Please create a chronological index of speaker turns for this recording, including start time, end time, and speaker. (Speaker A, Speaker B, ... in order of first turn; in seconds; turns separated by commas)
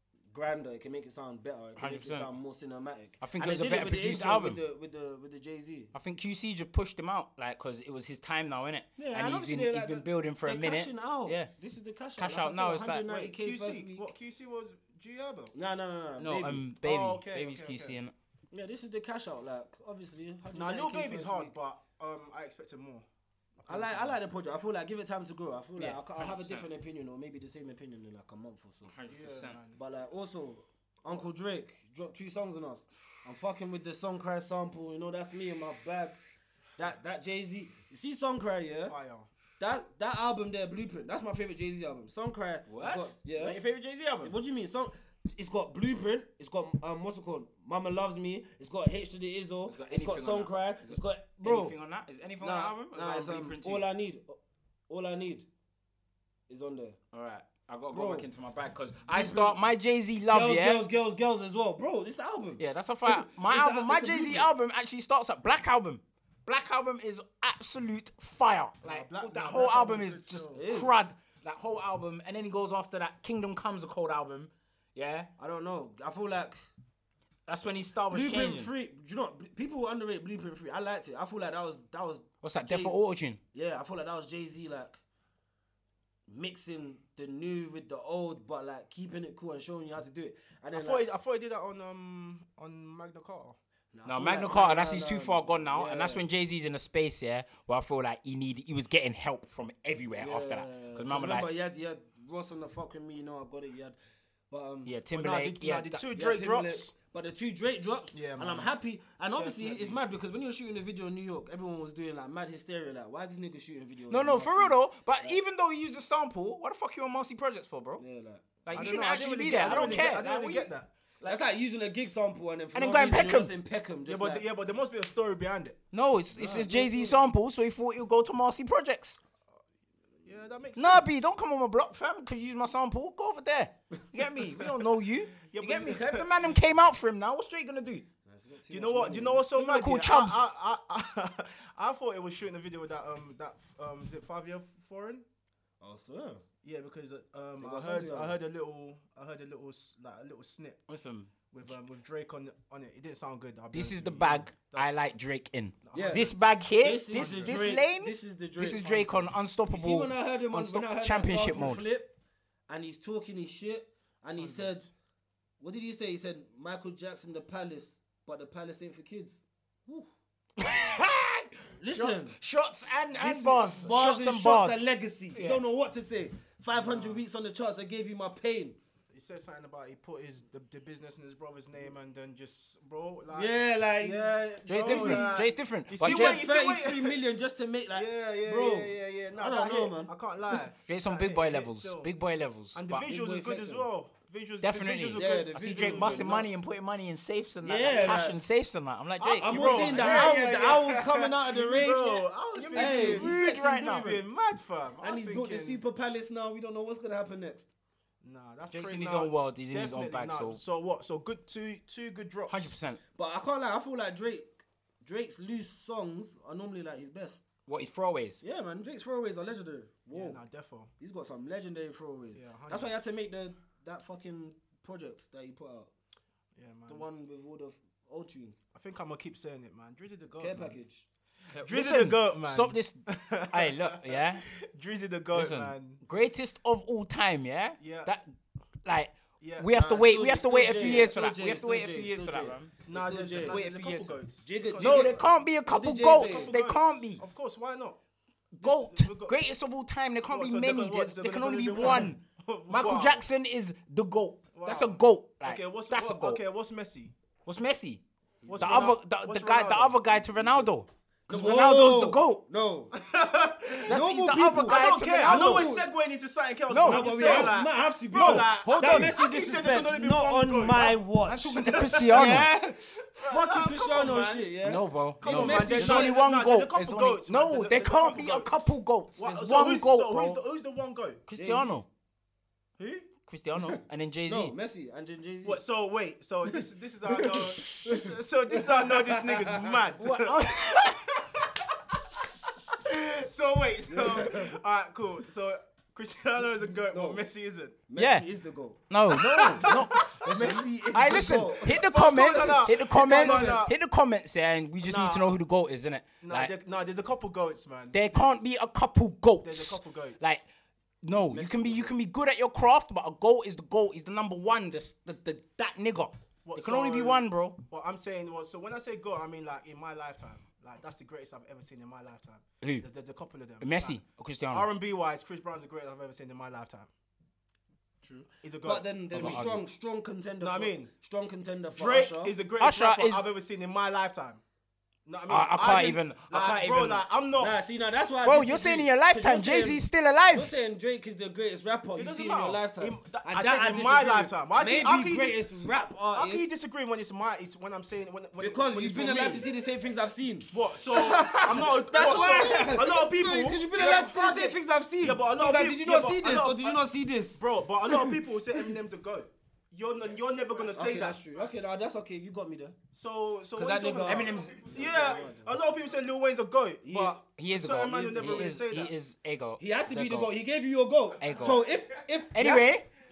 Speaker A: 0.3-5.9, Speaker B: 1.8-2.3, Speaker B: 3.2-4.6, Speaker B: 5.9-11.5, Speaker A: 9.0-14.1, Speaker B: 12.2-13.1, Speaker C: 13.1-15.5, Speaker A: 15.5-16.6, Speaker B: 16.2-18.1, Speaker C: 16.8-18.0, Speaker A: 18.5-21.5, Speaker C: 20.5-23.1, Speaker C: 23.6-24.2, Speaker A: 23.7-28.9, Speaker B: 25.8-26.7, Speaker B: 28.9-29.6, Speaker C: 29.1-29.8, Speaker A: 29.8-36.2, Speaker A: 36.8-39.0, Speaker C: 38.9-39.3, Speaker A: 39.6-43.6, Speaker B: 42.7-44.3, Speaker A: 44.2-51.8, Speaker B: 49.7-53.9, Speaker A: 52.4-55.5, Speaker A: 56.5-57.0, Speaker B: 57.1-60.8, Speaker A: 57.9-58.3, Speaker A: 59.1-59.6, Speaker A: 60.3-64.5, Speaker B: 62.6-75.3, Speaker C: 68.8-70.7, Speaker A: 70.5-70.9, Speaker A: 75.4-76.6, Speaker B: 77.5-78.7, Speaker A: 78.1-83.0, Speaker B: 82.4-83.4, Speaker A: 83.5-85.0, Speaker A: 86.3-91.0, Speaker C: 90.7-93.6, Speaker A: 93.9-96.2, Speaker B: 94.1-101.5, Speaker A: 100.2-104.0, Speaker A: 104.5-104.9, Speaker B: 104.9-106.0, Speaker C: 105.1-106.9, Speaker A: 106.1-115.4, Speaker C: 108.1-108.7, Speaker C: 109.4-110.0, Speaker B: 114.1-118.0, Speaker A: 118.0-118.9, Speaker B: 118.6-121.4, Speaker C: 118.7-120.9, Speaker A: 119.6-120.1, Speaker A: 121.2-124.5, Speaker B: 122.8-123.5, Speaker C: 124.1-125.8, Speaker B: 125.9-129.2, Speaker A: 126.3-127.2, Speaker C: 130.2-131.3, Speaker B: 130.8-138.1, Speaker C: 135.5-136.4, Speaker A: 138.2-139.4, Speaker C: 138.7-145.2, Speaker B: 139.6-140.4, Speaker A: 145.8-146.4, Speaker C: 146.6-150.8, Speaker A: 147.6-148.4, Speaker B: 150.9-151.3, Speaker C: 151.5-155.1, Speaker B: 153.7-161.9, Speaker C: 155.8-156.4, Speaker A: 155.9-156.3, Speaker A: 156.8-162.2, Speaker C: 157.1-157.7, Speaker A: 162.7-164.9, Speaker C: 164.4-164.8, Speaker A: 165.6-170.1, Speaker B: 170.6-175.6, Speaker A: 171.8-172.3, Speaker A: 173.2-178.8, Speaker C: 176.7-177.2, Speaker C: 179.1-187.2, Speaker A: 183.3-185.4, Speaker B: 184.7-186.4, Speaker A: 186.0-190.1, Speaker C: 187.9-192.1, Speaker B: 190.9-193.1, Speaker C: 192.7-196.5, Speaker A: 193.1-193.9, Speaker B: 194.6-200.4, Speaker A: 195.1-196.6, Speaker A: 197.6-198.4, Speaker C: 199.2-205.8, Speaker A: 199.4-203.6, Speaker B: 202.6-204.2, Speaker A: 205.0-207.7, Speaker C: 208.2-212.7, Speaker B: 208.7-210.6, Speaker B: 212.5-213.0, Speaker A: 213.2-217.4, Speaker B: 217.7-218.4, Speaker A: 218.4-220.4, Speaker C: 220.1-220.9, Speaker A: 221.0-225.9, Speaker C: 222.3-222.9, Speaker C: 226.6-227.1, Speaker A: 226.9-228.6, Speaker C: 228.7-230.8, Speaker A: 230.4-231.1, Speaker B: 231.5-234.5, Speaker C: 231.6-236.0, Speaker B: 235.3-238.3, Speaker C: 237.8-238.1, Speaker B: 238.8-242.7, Speaker C: 239.4-239.7, Speaker A: 239.7-243.6, Speaker C: 240.8-241.1, Speaker C: 242.9-245.3, Speaker B: 243.4-244.2, Speaker A: 244.4-246.5, Speaker B: 244.8-247.2, Speaker C: 246.1-248.0, Speaker B: 248.5-256.4, Speaker C: 248.6-249.4, Speaker C: 250.3-253.2, Speaker C: 254.5-257.1, Speaker B: 257.5-258.0, Speaker A: 258.4-258.9, Speaker C: 258.5-260.7, Speaker B: 258.6-262.4, Speaker A: 261.3-263.0, Speaker C: 262.9-272.5, Speaker B: 263.9-265.7, Speaker A: 263.9-265.9, Speaker B: 266.7-267.6, Speaker A: 266.8-276.1, Speaker B: 268.1-269.2, Speaker B: 271.2-272.5, Speaker C: 273.1-274.5, Speaker B: 274.6-280.4, Speaker C: 275.2-278.6, Speaker C: 279.2-281.2, Speaker B: 281.3-281.9, Speaker A: 281.4-281.8, Speaker C: 282.8-283.1, Speaker B: 283.3-284.6, Speaker A: 283.6-285.6, Speaker C: 285.4-292.2, Speaker A: 286.5-289.7, Speaker B: 290.0-291.1, Speaker C: 292.7-297.8, Speaker A: 293.9-294.6, Speaker A: 296.9-297.2, Speaker A: 297.9-298.8, Speaker B: 298.0-298.3, Speaker B: 298.9-306.5, Speaker C: 299.1-300.7, Speaker A: 299.3-303.6, Speaker C: 301.6-303.8, Speaker C: 304.8-305.4, Speaker C: 306.2-308.2, Speaker B: 307.9-310.4, Speaker C: 309.4-310.4, Speaker B: 311.0-317.6, Speaker A: 311.3-311.9, Speaker C: 316.4-324.0, Speaker B: 323.6-324.7, Speaker C: 324.5-326.9, Speaker A: 328.0-332.4, Speaker C: 328.4-329.5, Speaker B: 329.1-329.6, Speaker C: 330.4-330.9, Speaker C: 331.8-334.4, Speaker B: 332.6-333.2, Speaker C: 335.1-337.6, Speaker B: 335.3-337.0, Speaker A: 337.4-346.5, Speaker B: 338.2-340.5, Speaker C: 342.0-345.4, Speaker C: 346.1-349.5, Speaker A: 348.4-358.2, Speaker C: 350.5-361.2, Speaker A: 360.7-362.8, Speaker C: 362.9-368.9, Speaker A: 363.6-365.5, Speaker B: 364.1-365.1, Speaker A: 366.8-367.2, Speaker B: 367.4-370.3, Speaker A: 369.6-372.7, Speaker B: 371.2-371.7, Speaker B: 372.3-372.9